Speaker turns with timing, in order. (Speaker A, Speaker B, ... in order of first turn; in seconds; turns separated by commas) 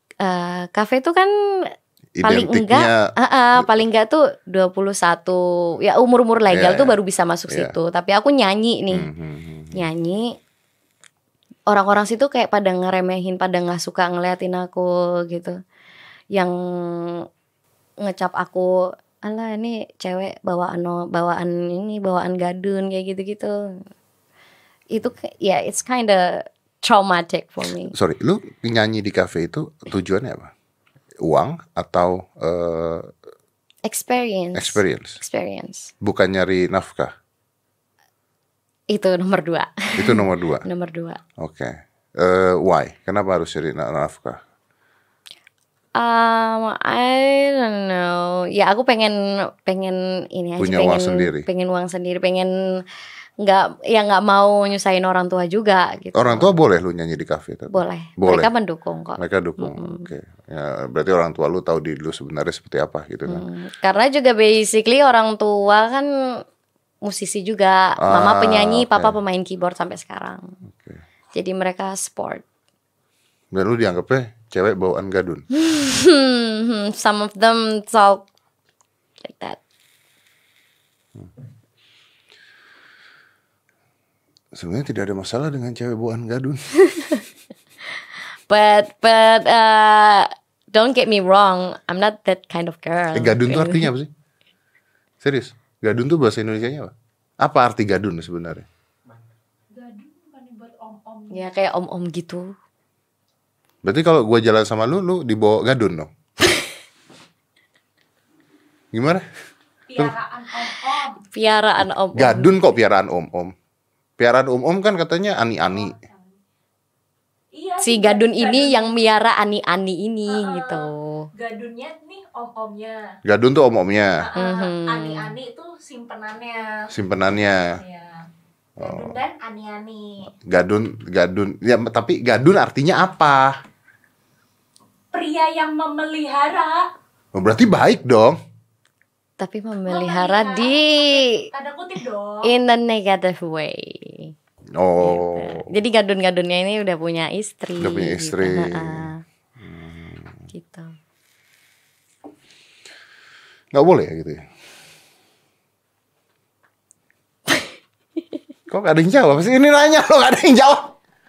Speaker A: 0.2-9.1, Speaker B: 2.1-3.6, Speaker B: 6.5-7.0, Speaker B: 7.5-7.7, Speaker B: 8.9-9.8, Speaker A: 9.7-10.4, Speaker A: 11.7-15.6, Speaker A: 16.3-17.2, Speaker A: 18.0-23.9, Speaker A: 24.9-27.9, Speaker B: 27.9-30.5, Speaker B: 31.2-33.1, Speaker A: 33.8-35.9, Speaker B: 34.5-35.2, Speaker B: 36.0-37.1, Speaker A: 38.9-41.2, Speaker B: 40.0-40.6, Speaker B: 41.4-44.4, Speaker A: 46.0-52.8, Speaker B: 50.6-51.5, Speaker A: 53.4-56.5, Speaker B: 56.1-58.5, Speaker A: 57.7-60.1, Speaker B: 59.2-63.4, Speaker A: 63.2-66.4, Speaker A: 67.0-70.5, Speaker B: 68.0-69.1, Speaker B: 70.7-71.0, Speaker A: 71.3-72.4, Speaker B: 73.5-75.4, Speaker A: 75.5-78.2, Speaker A: 79.2-79.6, Speaker B: 84.5-86.6, Speaker A: 88.5-93.9, Speaker B: 93.1-94.1, Speaker B: 95.2-98.7, Speaker C: 99.7-101.5, Speaker A: 101.3-102.5, Speaker B: 103.8-106.1, Speaker B: 108.9-109.2, Speaker C: 109.9-111.2, Speaker A: 111.3-112.6, Speaker B: 112.1-113.5, Speaker B: 114.2-115.9, Speaker C: 115.7-116.4, Speaker C: 117.5-119.1, Speaker A: 117.8-121.3, Speaker C: 120.3-123.2, Speaker B: 123.2-124.2, Speaker C: 124.2-126.9, Speaker A: 124.3-125.3, Speaker B: 126.9-127.8, Speaker C: 127.8-128.3, Speaker B: 128.8-129.1, Speaker C: 128.8-130.3, Speaker B: 130.4-133.6, Speaker C: 135.1-136.9, Speaker B: 137.3-138.4, Speaker A: 139.4-141.4, Speaker C: 139.8-142.5, Speaker A: 142.4-144.3, Speaker B: 144.7-145.7, Speaker A: 145.0-149.2, Speaker B: 147.8-150.5, Speaker A: 150.5-150.9, Speaker B: 153.7-154.4, Speaker B: 158.7-160.9